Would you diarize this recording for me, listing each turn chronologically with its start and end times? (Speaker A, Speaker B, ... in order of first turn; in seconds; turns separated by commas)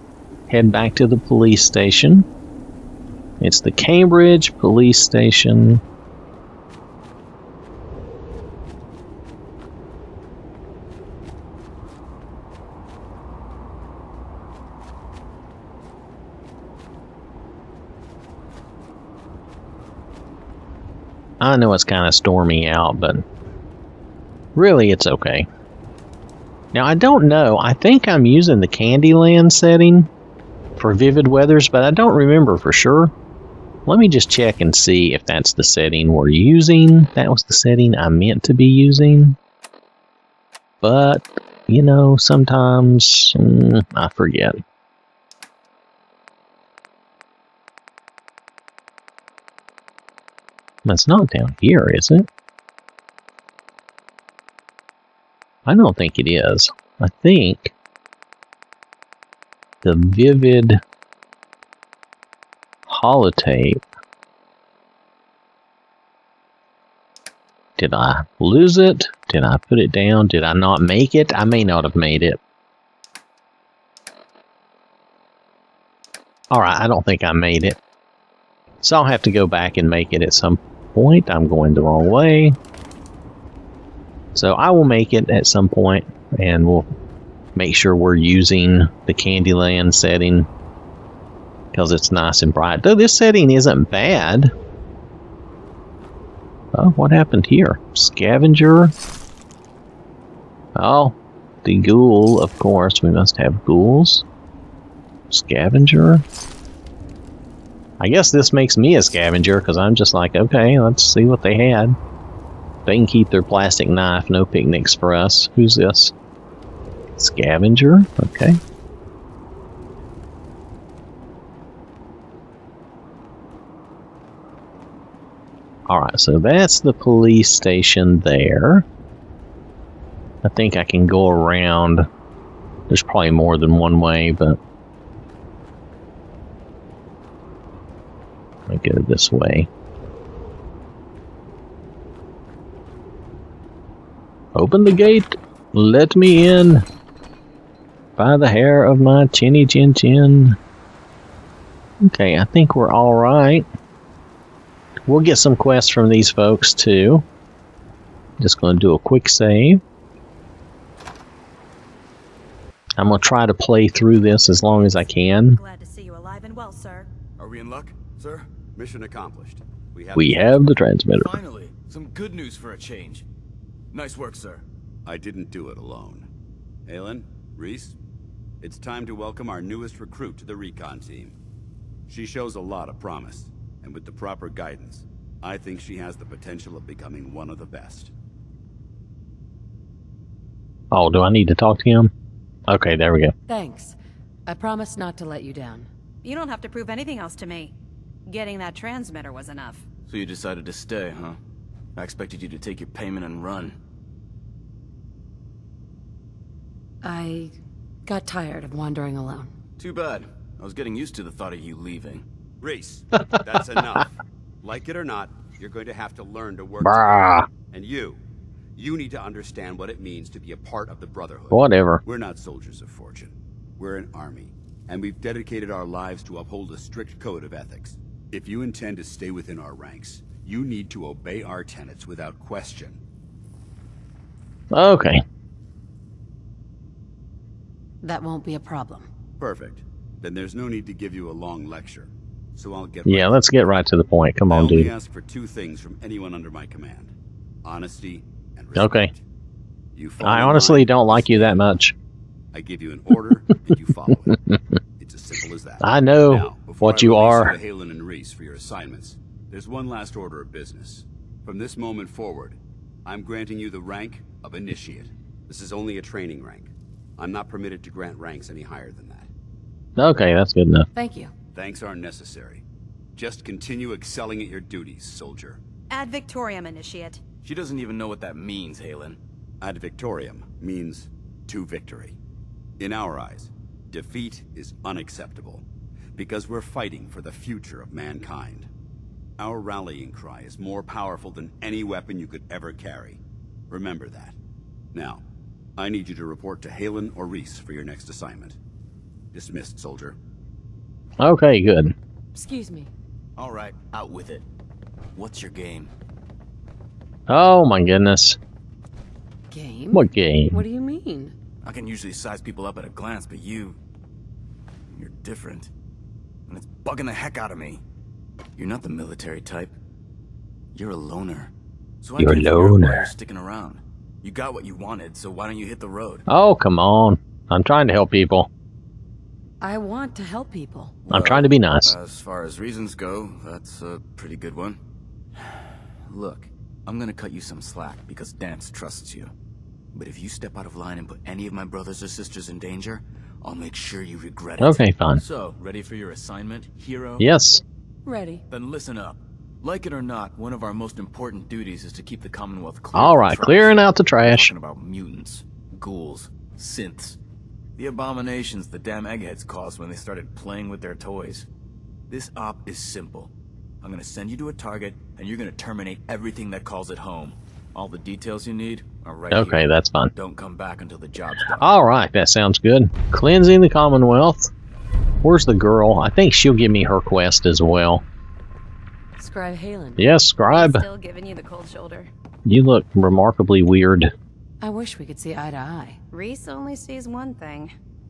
Speaker A: 0.5-2.3, Speaker A: 3.4-5.8, Speaker A: 21.4-23.3, Speaker A: 24.6-25.5, Speaker A: 26.7-30.1, Speaker A: 30.8-33.1, Speaker A: 33.9-39.4, Speaker A: 40.8-44.6, Speaker A: 50.9-52.3, Speaker A: 55.7-57.7, Speaker A: 59.8-60.8, Speaker A: 62.9-63.8, Speaker A: 67.8-72.4, Speaker A: 76.5-77.8, Speaker A: 78.8-82.6, Speaker A: 84.3-86.9, Speaker A: 87.5-90.5, Speaker A: 91.7-94.5, Speaker A: 96.7-98.9, Speaker A: 100.8-104.2, Speaker A: 105.3-106.2, Speaker A: 108.0-112.0, Speaker A: 112.9-116.1, Speaker A: 117.2-118.6, Speaker A: 125.9-128.9, Speaker A: 130.4-132.1, Speaker A: 132.9-134.6, Speaker A: 138.7-139.7, Speaker A: 144.6-146.8, Speaker A: 148.2-150.6, Speaker A: 152.0-153.7, Speaker A: 155.1-157.2, Speaker A: 158.4-159.8, Speaker A: 163.0-165.6, Speaker B: 164.2-167.1, Speaker C: 167.4-168.5, Speaker D: 168.8-170.7, Speaker A: 170.2-171.3, Speaker C: 171.2-173.2, Speaker C: 173.9-174.6, Speaker D: 175.1-176.3, Speaker D: 176.9-178.0, Speaker D: 178.6-181.3, Speaker D: 182.1-188.1, Speaker A: 190.9-192.1, Speaker A: 192.7-193.3, Speaker E: 193.5-194.0, Speaker E: 194.5-195.9, Speaker B: 196.2-197.7, Speaker B: 198.3-199.9, Speaker C: 200.1-201.4, Speaker C: 202.0-203.8, Speaker E: 207.0-207.5, Speaker E: 208.1-209.5, Speaker C: 209.8-212.2, Speaker D: 212.6-218.2, Speaker A: 216.8-217.5, Speaker D: 218.8-233.0, Speaker A: 221.5-222.0, Speaker A: 234.7-235.2, Speaker E: 238.0-239.1, Speaker D: 239.4-243.7, Speaker A: 243.1-244.9, Speaker D: 244.5-247.1, Speaker D: 247.6-249.2, Speaker A: 248.8-249.1, Speaker D: 249.9-251.6, Speaker A: 250.2-251.9, Speaker D: 252.5-254.4, Speaker D: 255.0-269.3, Speaker A: 255.8-257.6, Speaker A: 270.0-270.9, Speaker E: 270.9-271.3, Speaker D: 271.6-272.6, Speaker D: 273.2-275.6, Speaker B: 275.9-277.2, Speaker C: 277.4-279.2, Speaker D: 279.6-282.2, Speaker D: 282.8-285.6, Speaker D: 286.2-288.7, Speaker D: 289.4-293.2, Speaker D: 293.7-294.4, Speaker D: 294.9-295.2, Speaker D: 295.8-298.6, Speaker D: 299.3-300.2, Speaker A: 301.2-302.0, Speaker E: 302.3-302.9, Speaker C: 303.4-304.4, Speaker C: 305.1-305.9, Speaker A: 307.3-308.4, Speaker E: 309.5-311.4, Speaker A: 309.9-310.6, Speaker C: 311.6-313.8, Speaker C: 314.9-315.7, Speaker C: 316.5-317.8, Speaker C: 318.6-319.8, Speaker C: 320.8-326.3, Speaker A: 322.2-323.1, Speaker A: 326.3-328.5, Speaker E: 329.6-331.0, Speaker C: 331.0-334.8, Speaker A: 331.1-331.9, Speaker C: 335.4-339.3, Speaker C: 339.9-347.3, Speaker A: 344.6-345.2, Speaker A: 347.2-347.6, Speaker E: 348.1-348.4, Speaker C: 348.5-357.2, Speaker A: 352.9-354.5, Speaker C: 357.8-361.5, Speaker C: 362.1-363.3, Speaker C: 363.8-371.8, Speaker A: 369.3-370.1, Speaker A: 371.6-374.5, Speaker A: 375.2-378.0, Speaker E: 379.2-380.0, Speaker A: 380.0-380.9, Speaker B: 380.5-382.1, Speaker A: 382.5-384.1, Speaker E: 384.6-386.0, Speaker B: 386.1-387.7